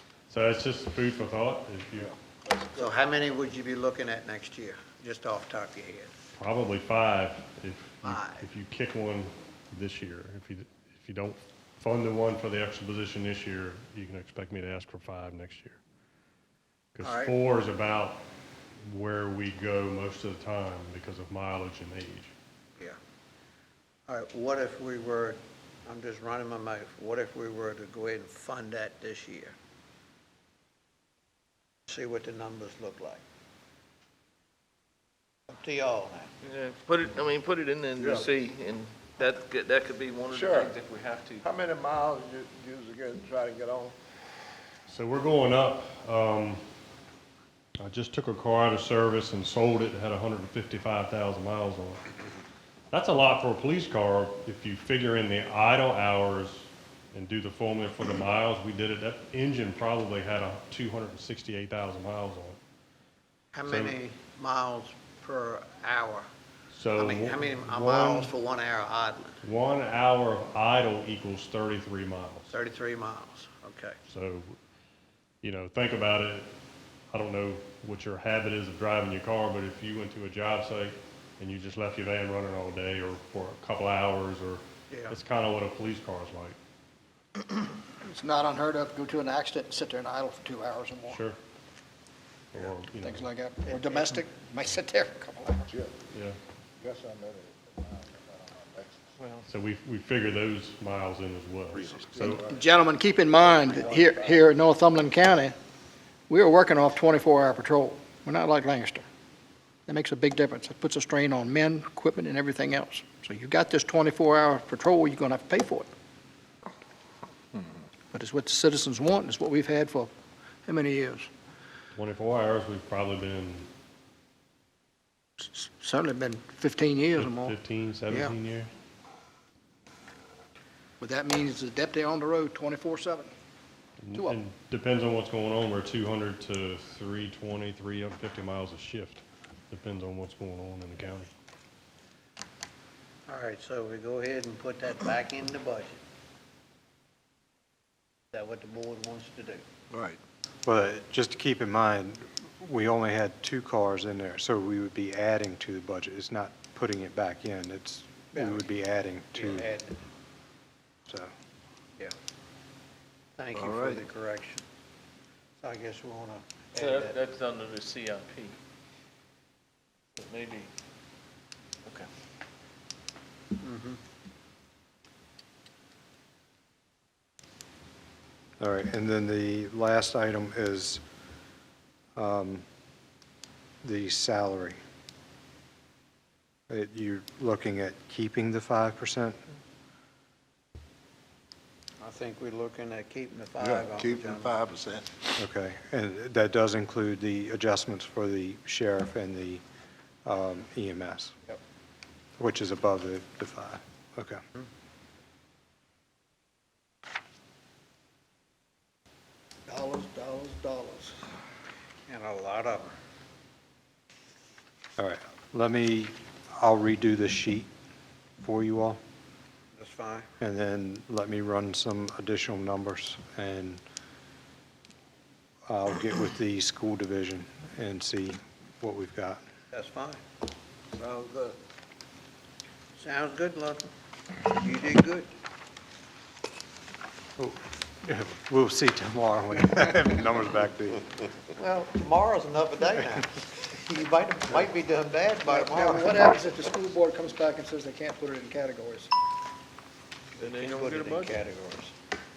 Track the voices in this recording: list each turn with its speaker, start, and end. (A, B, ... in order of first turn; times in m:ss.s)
0:00.3-0:02.1 A
0:02.0-0:02.8 B
0:02.8-0:06.1 C
0:06.4-0:15.8 A
0:08.0-0:08.5 C
0:16.9-0:18.2 A
0:17.0-0:17.4 C
0:18.8-0:22.3 A
0:24.1-0:29.6 C
0:31.9-0:33.2 C
0:35.5-0:36.3 C
0:36.4-0:41.4 D
0:38.0-0:38.3 B
0:40.3-0:40.7 B
0:41.4-0:44.0 B
0:44.9-0:46.6 A
0:47.8-0:52.0 A
0:52.9-1:02.6 A
1:03.5-1:06.3 C
1:03.7-1:04.0 A
1:06.7-1:08.3 A
1:07.0-1:09.4 C
1:09.4-1:12.5 A
1:12.5-1:14.0 C
1:14.0-1:14.6 A
1:15.4-1:16.5 A
1:17.1-1:26.6 A
1:24.9-1:25.2 C
1:28.0-1:31.2 E
1:31.1-1:31.4 A
1:32.5-1:33.3 A
1:33.0-1:35.6 E
1:33.7-1:34.2 C
1:35.6-1:35.9 B
1:36.1-1:36.4 A
1:36.8-1:39.0 B
1:39.2-1:39.4 D
1:39.5-1:42.4 A
1:41.7-1:42.6 B
1:42.4-1:45.6 E
1:43.4-1:44.4 B
1:46.3-1:49.1 E
1:49.9-1:55.9 E
1:58.1-2:00.1 E
2:00.6-2:01.3 E
2:02.0-2:03.7 A
2:05.4-2:07.6 E
2:07.2-2:08.7 A
2:11.0-2:13.3 E
2:14.0-2:21.3 A
2:14.1-2:14.4 E
2:23.3-2:26.0 C
2:28.3-2:29.6 C
2:29.9-2:30.2 B
2:30.6-2:39.7 F
2:38.3-2:38.7 C
2:39.4-2:40.0 C
2:43.4-2:44.6 C
2:43.5-2:44.0 B
2:45.6-2:47.2 C
2:46.7-2:48.6 D
2:50.2-2:50.7 D
2:53.6-2:54.0 C
2:58.6-3:01.0 F
3:02.2-3:02.6 F
3:03.8-3:04.8 F
3:06.7-3:09.4 F
3:12.0-3:14.5 C
3:13.6-3:15.1 B
3:15.4-3:19.6 F
3:20.2-3:21.4 F
3:22.4-3:24.4 F
3:29.7-3:31.2 E
3:32.1-3:32.9 C
3:35.0-3:37.7 F
3:38.4-3:39.0 F
3:39.7-3:40.3 C
3:40.4-3:43.8 F
3:45.7-3:49.4 F
3:49.7-3:50.2 C
3:50.9-3:51.6 B
3:53.0-3:55.3 C
3:57.4-4:01.1 F
4:01.6-4:06.2 C
4:05.4-4:09.1 E
4:10.4-4:11.9 C
4:10.4-4:11.4 D